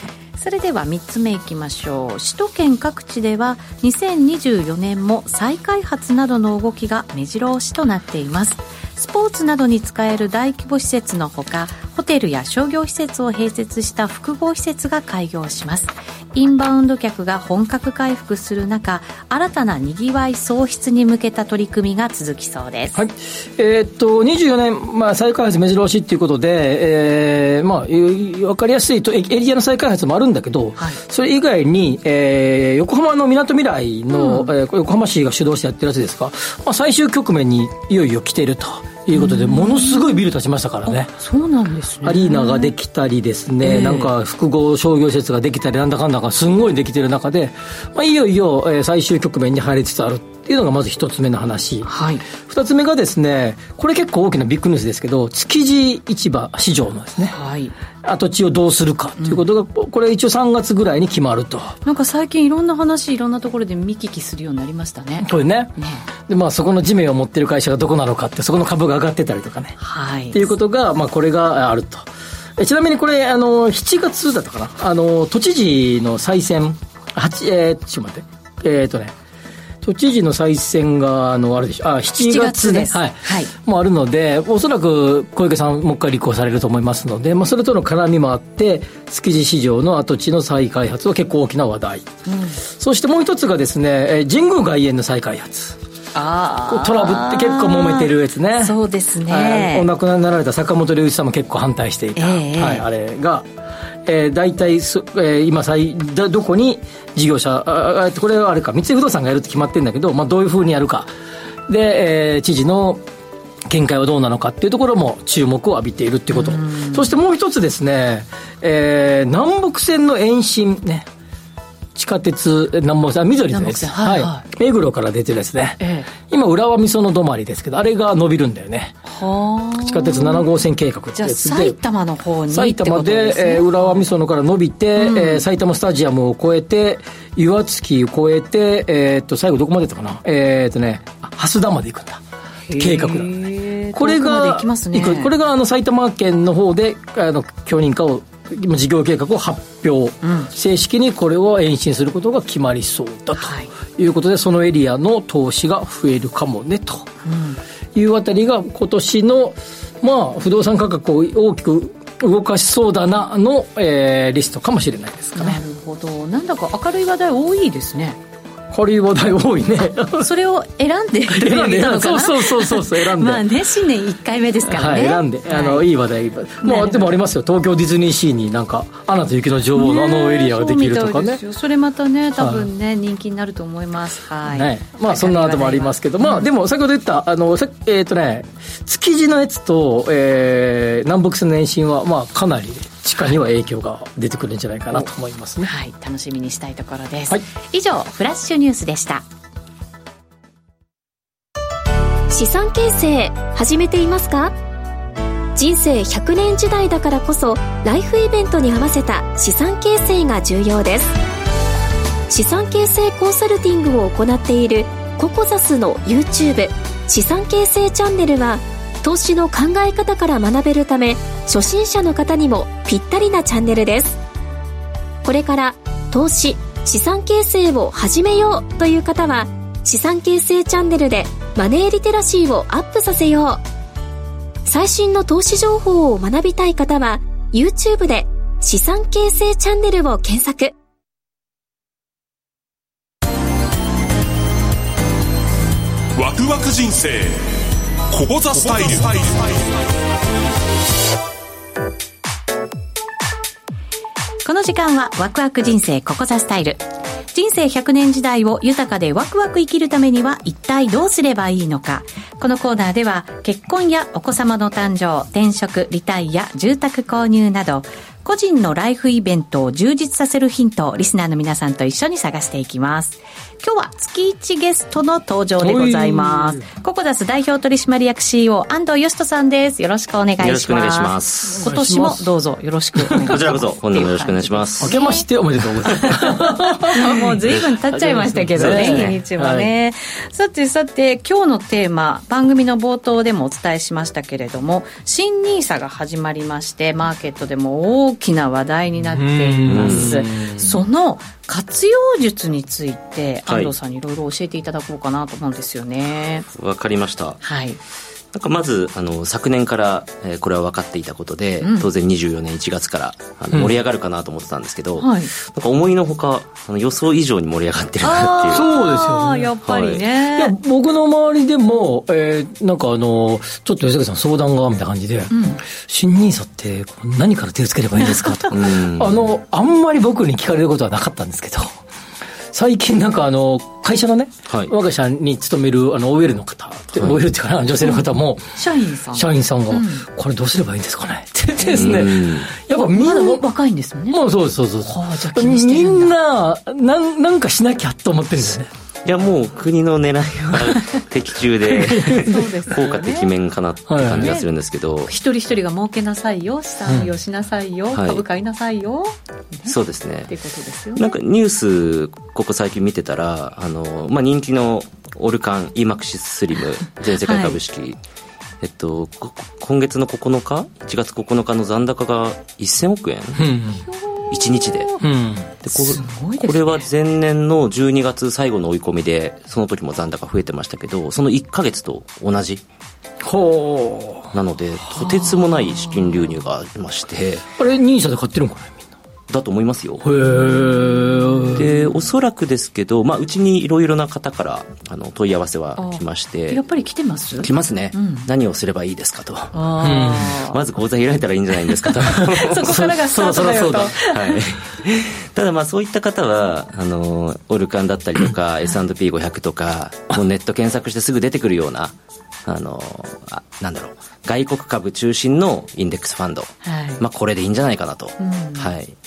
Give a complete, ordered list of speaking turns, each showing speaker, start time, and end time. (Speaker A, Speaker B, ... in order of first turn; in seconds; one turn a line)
Speaker A: 0.3-23.0
Speaker B: 22.9-41.1
Speaker A: 34.1-34.5
Speaker A: 39.1-40.1
Speaker A: 40.9-42.7
Speaker B: 42.0-57.3
Speaker A: 43.6-44.1
Speaker A: 51.9-52.2
Speaker A: 57.3-57.7
Speaker B: 58.0-61.8
Speaker A: 59.2-59.4
Speaker A: 61.8-66.0
Speaker B: 65.2-65.7
Speaker B: 66.2-69.8
Speaker A: 69.8-70.5
Speaker B: 70.3-79.1
Speaker B: 79.8-92.1
Speaker A: 82.2-83.5
Speaker A: 92.2-92.6
Speaker B: 92.6-95.8
Speaker A: 96.1-99.9
Speaker B: 96.7-103.5
Speaker A: 102.2-102.8
Speaker B: 104.0-111.1
Speaker B: 111.7-113.0
Speaker B: 113.7-121.1
Speaker A: 116.3-117.1
Speaker B: 121.9-129.0
Speaker A: 123.5-124.5
Speaker A: 125.8-126.1
Speaker A: 129.0-130.4
Speaker B: 129.8-131.8
Speaker A: 131.2-134.0
Speaker B: 132.5-142.2
Speaker A: 134.9-135.4
Speaker A: 142.7-145.3
Speaker B: 142.8-143.3
Speaker B: 143.9-157.1
Speaker A: 150.2-150.5
Speaker A: 153.4-153.7
Speaker A: 157.2-157.6
Speaker B: 157.9-165.6
Speaker A: 165.3-168.2
Speaker B: 168.7-170.3
Speaker A: 170.0-175.9
Speaker B: 171.3-173.4
Speaker B: 174.6-181.4
Speaker A: 176.6-177.1
Speaker A: 179.7-186.5
Speaker B: 182.4-182.7
Speaker B: 184.5-195.7
Speaker A: 195.6-199.2
Speaker C: 202.3-204.5
Speaker C: 205.5-211.2
Speaker C: 212.3-224.2
Speaker C: 225.2-233.6
Speaker C: 234.7-240.7
Speaker D: 246.2-247.6
Speaker D: 248.1-249.8
Speaker A: 254.4-285.3
Speaker B: 275.6-276.6
Speaker E: 280.4-281.6
Speaker B: 281.5-282.3
Speaker E: 283.2-284.9
Speaker B: 284.8-287.4
Speaker A: 285.8-306.5
Speaker B: 287.9-289.7
Speaker E: 288.6-289.2
Speaker B: 299.0-300.8
Speaker E: 299.6-300.2
Speaker E: 303.5-303.7
Speaker E: 306.5-307.4
Speaker A: 307.4-307.8
Speaker E: 308.3-318.7
Speaker A: 311.6-311.9
Speaker A: 315.0-315.3
Speaker A: 318.0-320.5
Speaker B: 318.5-319.5
Speaker E: 319.6-320.0
Speaker B: 320.3-331.8
Speaker A: 325.3-325.6
Speaker A: 328.2-328.4
Speaker E: 328.5-329.2
Speaker B: 332.5-338.6
Speaker A: 337.8-340.1
Speaker B: 339.1-343.4
Speaker A: 341.6-342.1
Speaker E: 341.7-342.5
Speaker A: 342.7-344.2
Speaker B: 344.1-348.7
Speaker A: 344.8-346.1
Speaker E: 349.0-355.1
Speaker B: 351.7-352.3
Speaker A: 352.1-353.3
Speaker B: 353.9-354.3
Speaker A: 354.1-354.5
Speaker A: 355.1-359.7
Speaker E: 357.9-358.2
Speaker E: 359.6-360.3
Speaker A: 360.3-361.2
Speaker E: 360.9-368.0
Speaker A: 367.1-367.6
Speaker E: 368.6-373.5
Speaker B: 373.4-373.8
Speaker A: 374.0-375.0
Speaker E: 374.3-374.9
Speaker B: 375.0-375.5
Speaker E: 375.6-382.6
Speaker A: 375.7-376.9
Speaker B: 383.2-384.3
Speaker E: 384.3-387.4
Speaker A: 384.9-386.1
Speaker B: 387.6-388.9
Speaker E: 389.3-390.0
Speaker B: 390.0-391.7
Speaker A: 390.2-391.7
Speaker E: 391.5-396.6
Speaker A: 395.8-398.3
Speaker E: 397.4-411.9
Speaker A: 399.5-400.6
Speaker B: 399.8-400.3
Speaker A: 402.0-404.4
Speaker B: 402.6-403.9
Speaker E: 412.4-418.9
Speaker A: 416.6-417.0
Speaker A: 418.2-418.7